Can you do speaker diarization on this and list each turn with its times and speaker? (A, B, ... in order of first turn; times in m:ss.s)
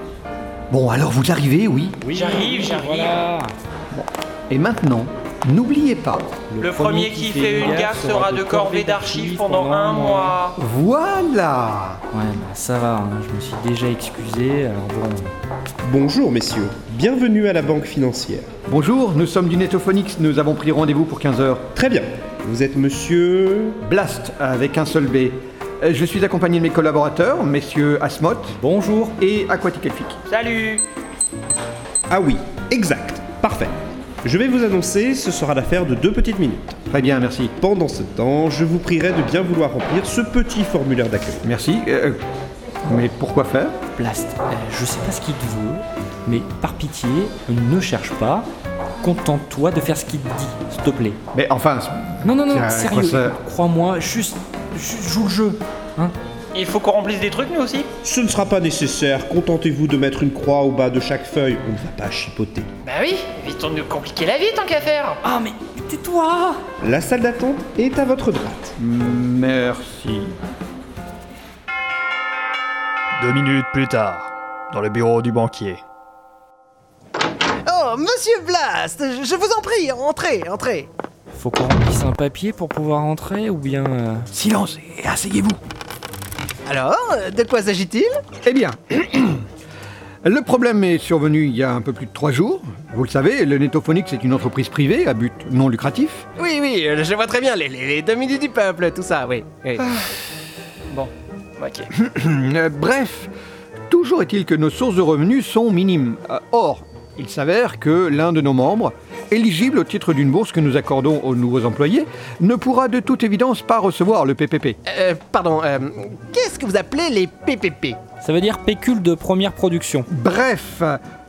0:00.7-0:02.0 A
0:02.0-0:03.5 B
0:02.1-0:03.2 C
0:03.9-0:06.3 A
0:06.5-0:10.4 B
0:06.6-0:10.6 C
0:10.6-0:12.0 A
0:12.1-0:15.3 B
0:15.8-0:18.5 D
0:18.7-0:21.7 A
0:21.7-0:23.8 D
0:23.8-0:28.6 A
0:28.5-0:29.1 B
0:29.2-0:30.2 A
0:30.3-0:30.8 C
0:32.1-0:36.8 D
0:36.9-0:37.5 A
0:37.6-0:41.4 D
0:41.4-0:42.2 A
0:42.9-0:43.7 A
0:43.9-0:48.5 B
0:49.0-0:51.2 B
0:51.3-0:53.4 A
0:52.2-0:56.1 B
0:56.5-0:57.9 C
0:58.0-1:02.7 D
1:02.8-1:05.2 C
1:05.2-1:06.6 B
1:06.8-1:08.7 D
1:08.8-1:10.3 A
1:13.2-1:15.8 E
1:17.6-1:20.9 F
1:21.3-1:24.3 B
1:24.3-1:25.6 A
1:26.6-1:28.1 F
1:28.4-1:29.4 A
1:30.2-1:36.2 A
1:36.4-1:39.9 F
1:40.9-1:41.9 C
1:41.9-1:43.3 A
1:43.9-1:54.8 A
1:54.9-1:58.0 F
1:58.2-2:00.1 B
2:00.1-2:01.0 A